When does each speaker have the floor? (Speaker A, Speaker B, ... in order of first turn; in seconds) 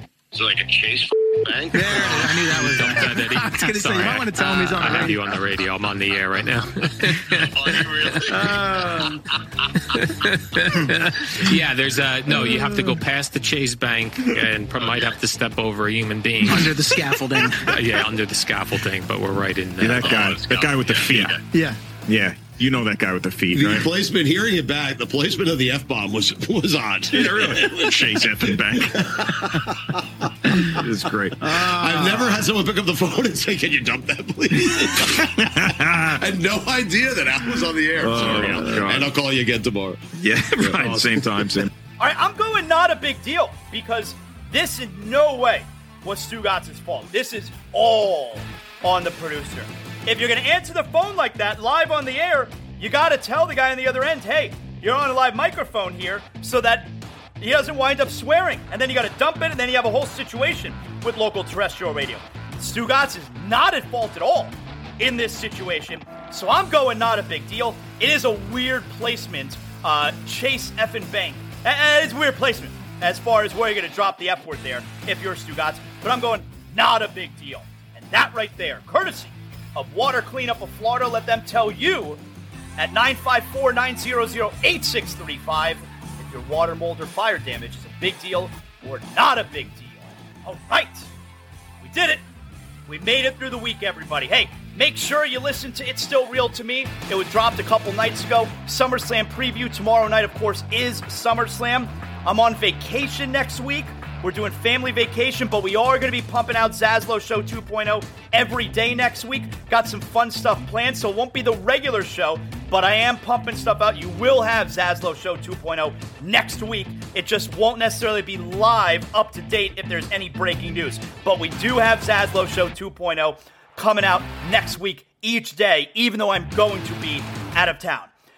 Speaker A: 0.3-2.2, 7.4-8.7, 20.0-21.4
Speaker B: 1.7-5.5, 12.4-12.9, 16.4-18.0, 21.5-21.8
Speaker C: 1.9-7.5, 10.0-16.9, 17.7-20.2, 38.1-39.0
Speaker D: 19.8-21.4, 22.1-23.9, 27.1-29.7, 30.5-32.5, 38.0-39.0, 40.2-41.7
Speaker E: 23.5-41.7
Speaker F: 42.0-82.2, 82.8-91.1, 91.8-92.2, 92.9-128.1